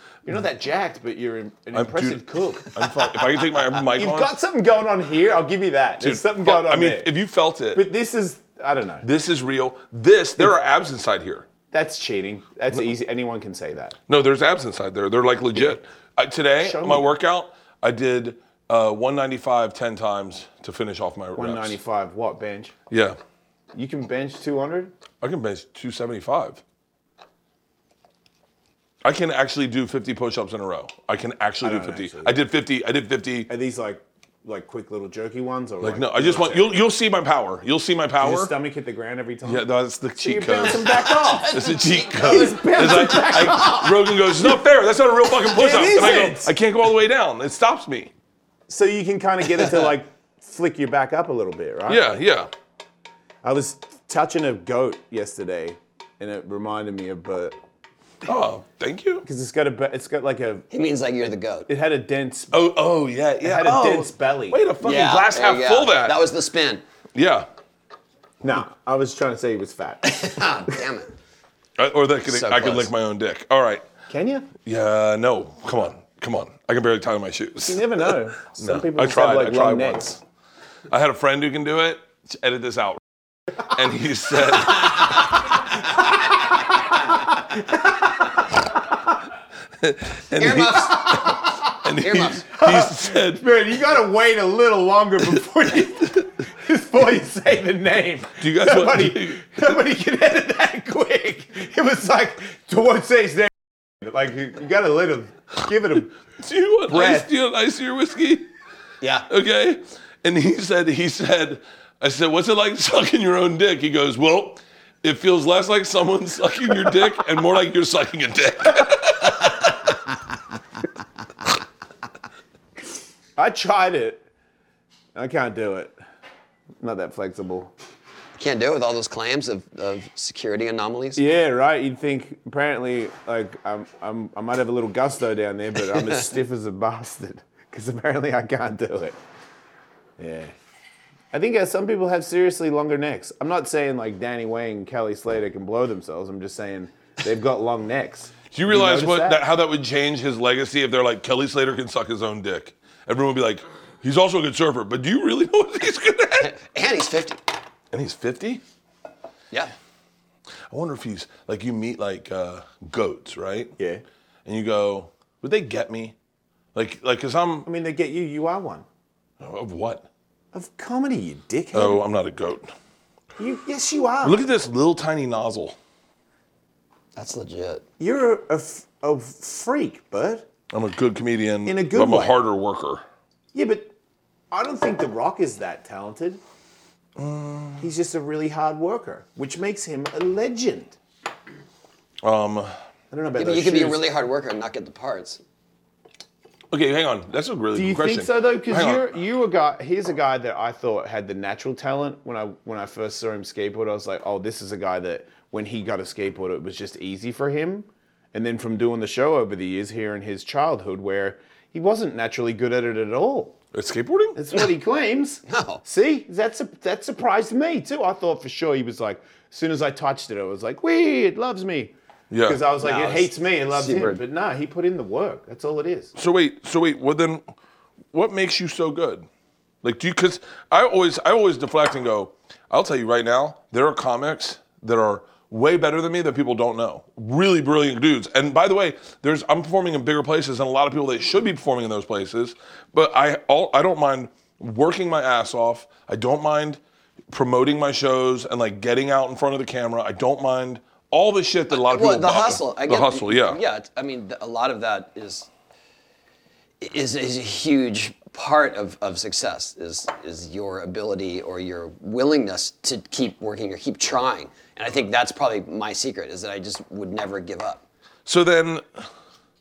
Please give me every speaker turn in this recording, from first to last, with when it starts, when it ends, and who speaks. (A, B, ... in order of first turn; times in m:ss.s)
0:00.2-0:03.1 A
0:01.7-0:04.3 B
0:03.9-0:07.1 A
0:06.0-0:07.8 B
0:07.7-0:09.0 A
0:09.0-0:11.5 B
0:11.7-0:14.0 A
0:14.1-0:21.8 B
0:16.6-0:17.1 A
0:21.4-0:22.7 A
0:22.9-0:23.2 B
0:23.7-0:24.9 A
0:25.2-0:26.6 B
0:29.0-0:33.5 B
0:31.6-0:32.4 A
0:33.5-0:36.8 A
0:35.8-0:38.5 B
0:38.2-0:41.6 A
0:39.4-0:48.1 B
0:40.6-0:42.6 C
0:42.1-0:44.6 A
0:45.4-0:46.5 A
0:48.7-0:52.0 A
0:51.9-0:52.5 B
0:53.4-0:57.6 A
0:58.2-0:59.2 B
0:59.2-1:00.6 A
1:00.7-1:01.7 C
1:01.7-1:02.6 A
1:02.5-1:06.2 B
1:03.4-1:04.6 A
1:04.8-1:06.8 C
1:07.1-1:07.5 B
1:08.4-1:10.3 A
1:10.0-1:11.1 C
1:11.8-1:13.8 B
1:12.2-1:12.9 C
1:14.1-1:14.5 A
1:14.6-1:20.2 B
1:17.6-1:20.2 A
1:20.9-1:23.0 B
1:23.6-1:25.4 B
1:27.5-1:28.3 A
1:29.8-1:33.4 B
1:30.4-1:31.4 C
1:31.1-1:31.7 A
1:32.0-1:32.6 C
1:32.5-1:46.1 A
1:38.4-1:39.5 B
1:46.4-1:48.5 B
1:46.9-1:47.3 A
1:49.0-1:49.3 C
1:49.3-1:59.8 B
2:03.4-2:04.2 A
2:05.1-2:06.0 A
2:06.8-2:07.7 A
2:08.4-2:11.2 C
2:11.2-2:19.2 A
2:20.2-2:20.5 A
2:21.3-2:29.4 A
2:28.5-2:36.5 B
2:36.4-2:37.4 C
2:37.9-2:38.6 B
2:40.7-2:43.7 B
2:43.8-2:44.0 A
2:44.4-2:46.1 B
2:46.7-2:47.7 B
2:47.6-2:48.8 A
2:49.4-2:50.1 B
2:50.5-2:52.0 A
2:51.7-2:52.7 B
2:53.4-2:54.4 A
2:54.2-2:55.8 B
2:57.1-2:57.8 C
2:58.0-3:00.5 A
3:00.7-3:03.0 B
3:01.6-3:02.4 A
3:03.5-3:03.9 A
3:04.5-3:06.4 A
3:07.2-3:07.9 B
3:07.8-3:11.0 A
3:12.2-3:12.7 B
3:13.1-3:14.0 A
3:13.4-3:15.4 C
3:16.7-3:19.0 B
3:17.7-3:33.6 A
3:33.7-3:34.4 B
3:34.4-3:46.1 A
3:35.5-3:35.8 C
3:42.3-3:42.6 B
3:42.8-3:44.2 C
3:46.2-3:47.4 B
3:48.1-3:49.3 B
3:49.8-4:06.8 B
4:07.3-4:13.6 B
4:11.7-4:15.5 C
4:16.8-4:27.8 C
4:28.2-4:29.1 B